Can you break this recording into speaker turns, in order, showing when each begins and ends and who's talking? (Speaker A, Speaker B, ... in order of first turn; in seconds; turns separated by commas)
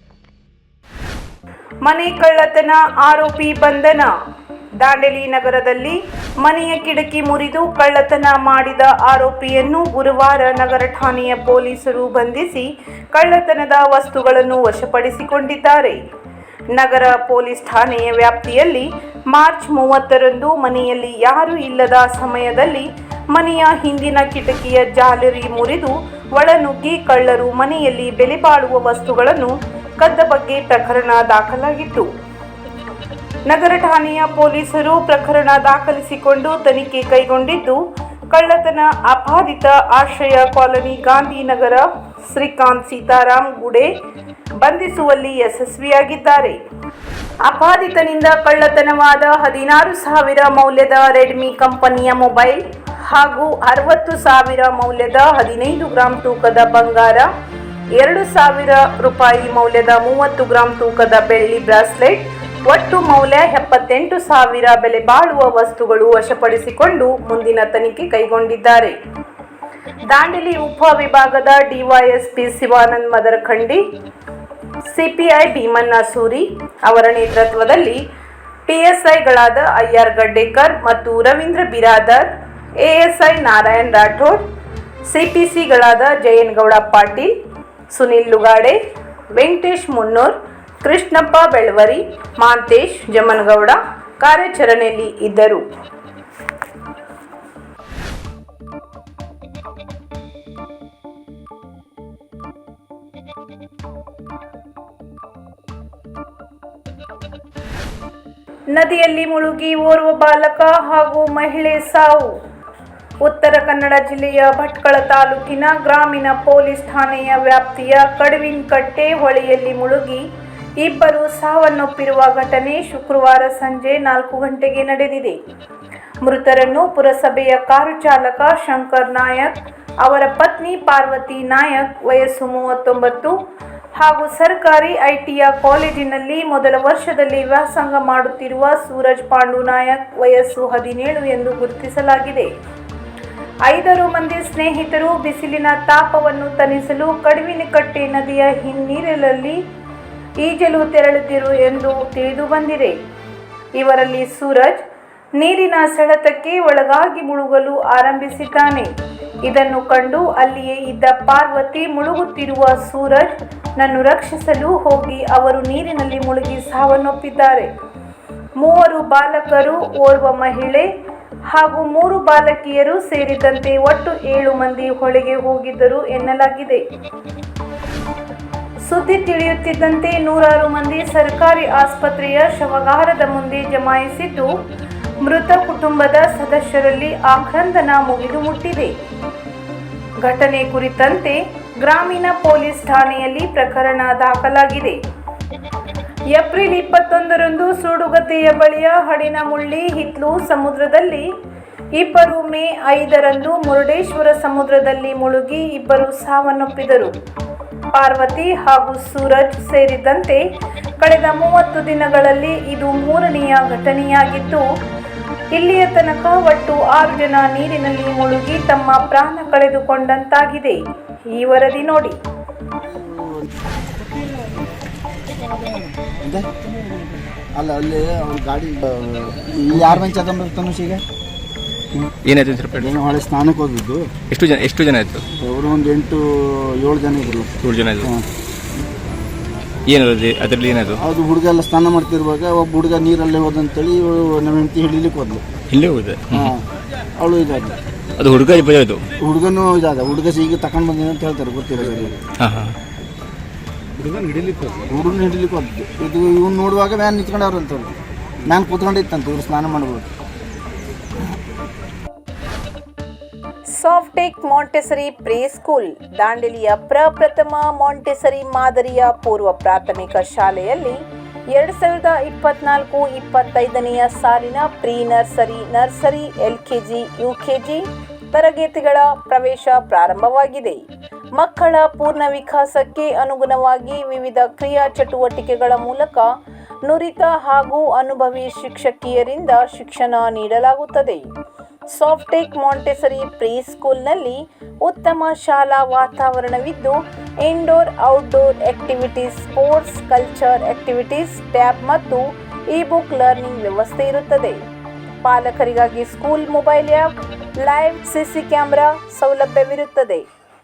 Speaker A: 1.8-4.1, Speaker A: 4.8-16.0, Speaker A: 16.7-32.1, Speaker A: 33.5-43.9, Speaker A: 44.6-46.6, Speaker A: 47.4-57.3, Speaker A: 58.0-69.0, Speaker A: 70.1-73.8, Speaker A: 74.8-78.0, Speaker A: 78.7-84.4, Speaker A: 85.1-87.3, Speaker A: 87.9-88.8, Speaker A: 89.3-95.6, Speaker A: 108.7-112.3, Speaker A: 113.2-120.3, Speaker A: 120.8-125.4, Speaker A: 126.2-133.4, Speaker A: 133.9-142.5, Speaker A: 143.7-149.6, Speaker A: 150.4-153.0, Speaker A: 153.7-154.8, Speaker A: 155.4-158.9, Speaker A: 159.4-167.7, Speaker A: 168.6-170.9, Speaker A: 171.5-176.8, Speaker A: 178.8-184.5, Speaker A: 185.2-188.9, Speaker A: 190.2-195.0, Speaker A: 196.3-201.3, Speaker A: 201.9-207.1, Speaker A: 207.9-210.4, Speaker A: 211.0-214.7, Speaker A: 215.6-220.8, Speaker A: 221.3-222.2, Speaker B: 222.8-223.5, Speaker B: 226.2-226.5, Speaker B: 227.6-231.0, Speaker C: 232.2-232.9, Speaker B: 232.7-234.1, Speaker C: 234.3-235.2, Speaker B: 235.4-238.3, Speaker C: 237.6-238.1, Speaker C: 239.9-241.0, Speaker B: 241.0-245.4, Speaker C: 245.7-246.6, Speaker B: 246.3-246.7, Speaker B: 247.2-247.8, Speaker C: 248.2-249.1, Speaker B: 249.2-252.2, Speaker C: 252.4-252.8, Speaker B: 254.8-257.9, Speaker B: 258.5-260.1, Speaker A: 263.7-271.0, Speaker A: 271.5-280.8, Speaker A: 281.4-291.3, Speaker A: 291.9-304.6, Speaker A: 305.2-310.2